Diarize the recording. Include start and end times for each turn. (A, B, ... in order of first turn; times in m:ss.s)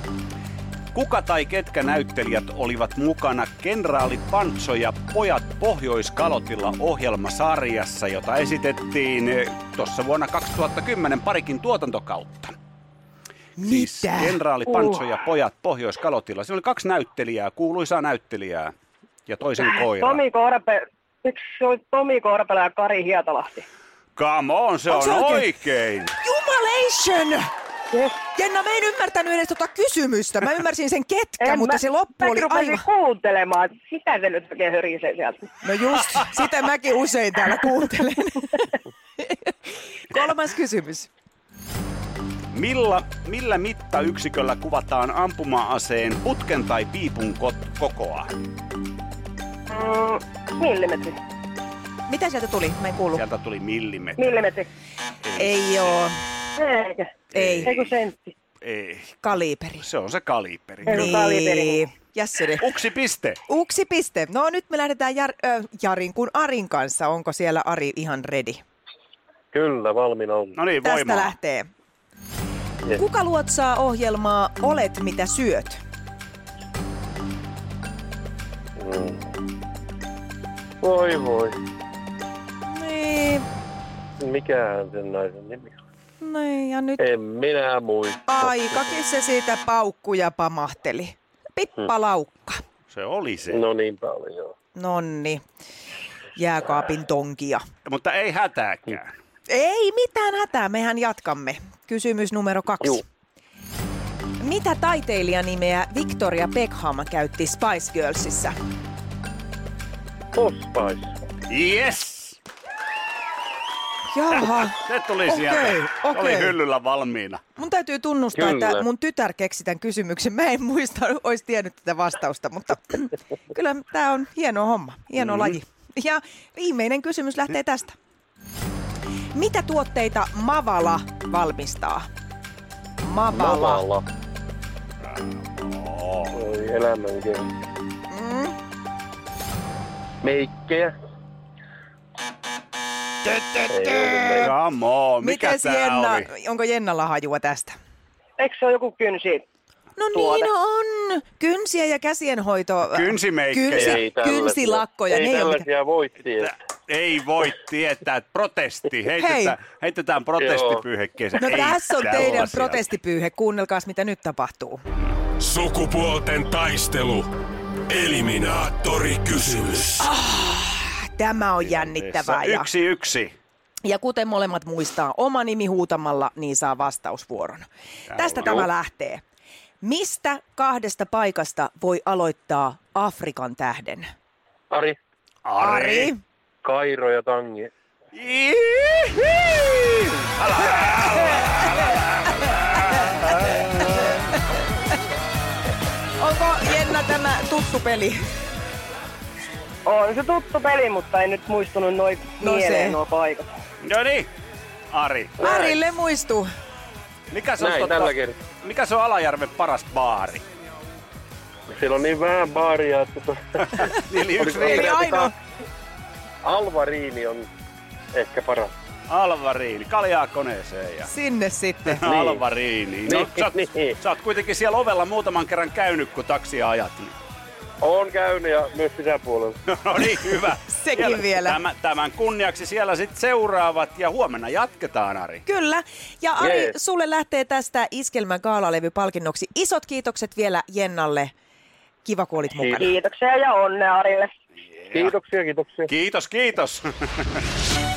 0:00.9-0:12.5 A
0:13.6-0:14.4 B
0:13.6-0:18.7 A
0:14.7-0:15.0 C
0:19.2-0:20.2 A
0:19.6-0:23.6 C
0:24.2-0:26.1 A
0:24.9-0:25.5 B
0:26.2-0:27.5 B
0:27.9-0:28.2 C
0:28.3-0:32.8 B
0:31.4-0:35.4 C
0:35.6-0:38.7 B
0:39.2-0:39.5 B
0:40.1-0:41.1 B
0:42.5-0:48.3 A
0:49.7-0:51.2 C
0:52.1-0:53.2 B
0:53.1-0:54.2 A
0:54.2-0:54.7 C
0:55.2-0:56.0 A
0:55.4-0:56.1 B
0:56.6-0:58.3 C
0:57.3-0:57.7 B
0:57.3-0:57.9 A
0:58.6-1:01.2 A
0:59.2-0:59.8 B
1:00.8-1:01.8 C
1:00.9-1:02.6 B
1:02.6-1:03.4 A
1:03.5-1:08.6 B
1:09.5-1:10.6 D
1:10.6-1:11.3 A
1:10.8-1:11.7 B
1:13.0-1:15.8 B
1:18.8-1:19.2 D
1:20.8-1:21.6 D
1:22.7-1:23.4 B
1:24.2-1:25.7 D
1:26.2-1:27.0 B
1:27.0-1:28.3 D
1:28.3-1:32.6 B
1:32.9-1:33.6 A
1:33.5-1:34.5 D
1:34.7-1:35.4 B
1:36.4-1:37.6 B
1:37.8-1:39.1 A
1:39.5-1:43.0 B
1:44.4-1:48.5 B
1:50.3-1:51.1 D
1:51.5-1:52.4 A
1:54.1-1:56.6 B
1:54.4-1:57.4 A
1:57.6-2:08.0 B
1:58.4-1:58.8 D
2:05.2-2:05.6 A
2:09.3-2:12.0 B
2:13.0-2:13.8 B
2:13.3-2:14.0 D
2:15.0-2:16.4 A
2:16.3-2:17.5 D
2:18.1-2:18.5 B
2:20.2-2:20.9 D
2:23.7-2:24.5 D
2:24.4-2:26.3 A
2:25.2-2:27.8 B
2:28.4-2:29.4 C
2:30.0-2:35.6 B
2:30.1-2:30.5 C
2:32.9-2:34.0 A
2:33.7-2:36.5 D
2:36.4-2:42.8 A
2:39.2-2:39.6 B
2:40.4-2:40.8 D
2:41.4-2:44.8 B
2:45.4-2:47.3 E
2:47.9-2:50.1 E
2:50.1-2:52.7 B
2:51.6-2:53.3 A
2:53.8-2:57.6 B
2:58.1-2:58.7 A
2:58.2-2:59.2 B
2:59.8-3:04.0 B
3:04.7-3:05.0 D
3:05.4-3:06.1 A
3:05.6-3:06.2 B
3:06.6-3:07.7 D
3:08.1-3:11.8 A
3:12.8-3:13.6 A
3:16.2-3:18.2 B
3:19.8-3:23.5 C
3:22.4-3:23.0 B
3:23.8-3:24.3 A
3:24.9-3:25.7 A
3:25.4-3:26.5 B
3:27.3-3:30.4 A
3:27.6-3:28.4 D
3:31.7-3:35.3 D
3:33.7-3:34.9 A
3:34.2-3:35.3 B
3:36.4-3:37.5 D
3:38.1-3:38.7 D
3:39.1-3:41.1 A
3:41.0-3:42.1 B
3:41.8-3:47.2 A
3:42.0-3:42.4 D
3:43.1-3:43.9 D
3:47.8-3:49.6 D
3:49.7-3:55.4 A
3:50.7-3:51.6 B
3:55.4-4:01.3 B
3:56.4-3:56.7 D
4:02.0-4:02.9 B
4:02.6-4:02.8 D
4:02.7-4:04.3 C
4:04.8-4:05.1 A
4:04.9-4:05.9 D
4:05.9-4:07.4 A